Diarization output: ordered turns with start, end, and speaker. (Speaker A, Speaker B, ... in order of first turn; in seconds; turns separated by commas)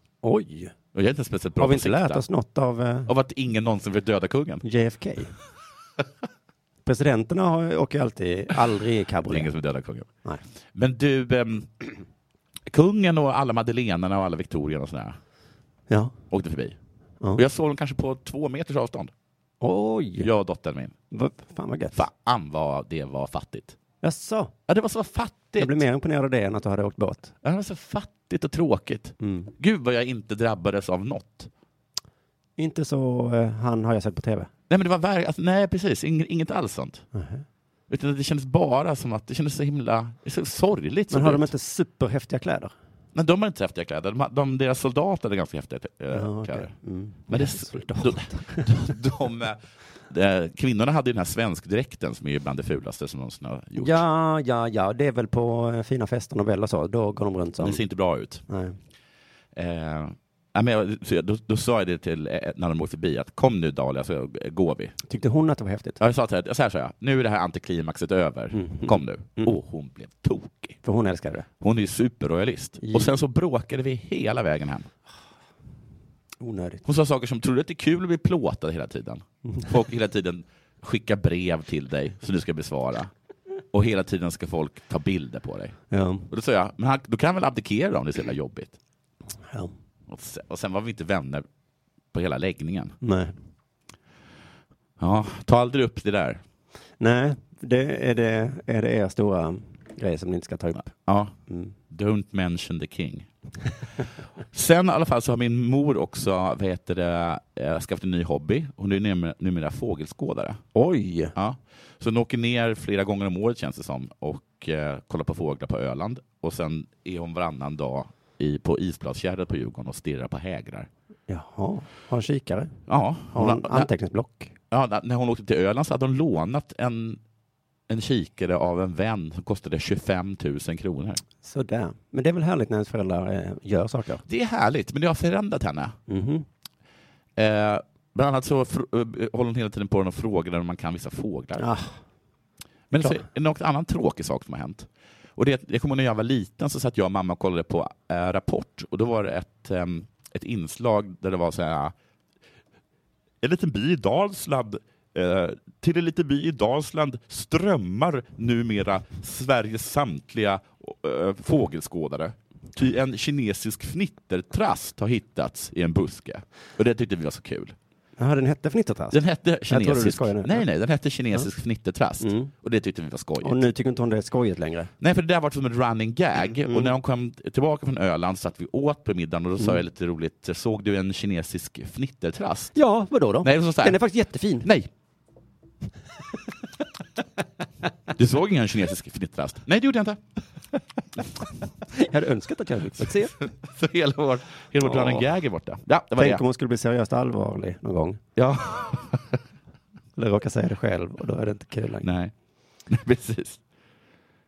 Speaker A: 0.2-0.7, Speaker B: 0.9-2.2, Speaker A: 1.6-3.1, Speaker B: 3.1-4.6, Speaker A: 4.6-5.3, Speaker A: 6.8-9.5, Speaker B: 9.3-10.1, Speaker B: 10.8-11.9, Speaker B: 12.7-15.2, Speaker B: 16.3-16.8, Speaker B: 17.4-19.1, Speaker A: 19.6-20.3, Speaker B: 20.2-20.9, Speaker A: 21.1-22.0, Speaker B: 21.9-23.8, Speaker A: 24.0-24.5, Speaker B: 24.7-25.8, Speaker A: 25.6-27.4, Speaker B: 27.4-31.5, Speaker A: 29.2-29.5, Speaker A: 32.6-34.5, Speaker B: 34.7-37.0, Speaker A: 37.1-37.4, Speaker B: 37.9-41.5, Speaker A: 41.1-42.7, Speaker B: 43.1-46.7, Speaker A: 46.1-48.7, Speaker B: 47.3-54.0, Speaker A: 53.8-57.8, Speaker B: 57.6-58.4, Speaker A: 58.5-58.8, Speaker B: 59.5-65.0, Speaker A: 65.0-66.0, Speaker B: 66.0-70.8, Speaker A: 68.5-69.6, Speaker A: 70.8-71.5, Speaker B: 71.6-74.9, Speaker A: 72.8-73.2, Speaker A: 76.4-76.8, Speaker B: 76.8-83.1, Speaker B: 83.7-85.8, Speaker A: 85.9-86.3, Speaker B: 86.3-88.8, Speaker B: 90.1-91.5, Speaker B: 92.1-93.0, Speaker A: 93.0-93.3, Speaker B: 95.0-96.4, Speaker A: 97.0-100.9, Speaker B: 100.9-101.3, Speaker A: 101.5-101.7, Speaker B: 101.9-103.3, Speaker B: 104.5-110.6, Speaker A: 110.7-111.3, Speaker B: 111.3-120.9, Speaker A: 121.3-122.8, Speaker B: 122.9-123.9, Speaker A: 123.3-124.5, Speaker B: 124.7-127.2, Speaker B: 127.9-131.2, Speaker A: 131.4-134.2, Speaker B: 134.3-136.0, Speaker A: 136.1-136.5, Speaker B: 137.4-141.7, Speaker A: 141.6-142.0, Speaker B: 142.9-151.9, Speaker B: 153.4-167.8, Speaker A: 168.2-170.6, Speaker B: 169.1-173.6, Speaker A: 172.2-172.5, Speaker A: 173.4-174.9, Speaker B: 175.0-182.7, Speaker A: 182.8-184.7, Speaker B: 183.4-184.0, Speaker B: 184.6-184.9, Speaker B: 188.2-190.2, Speaker A: 191.9-193.4, Speaker B: 193.4-196.4, Speaker A: 194.8-195.3, Speaker A: 196.2-198.2, Speaker B: 198.4-199.3, Speaker A: 200.2-202.1, Speaker B: 202.0-202.3, Speaker B: 202.9-203.6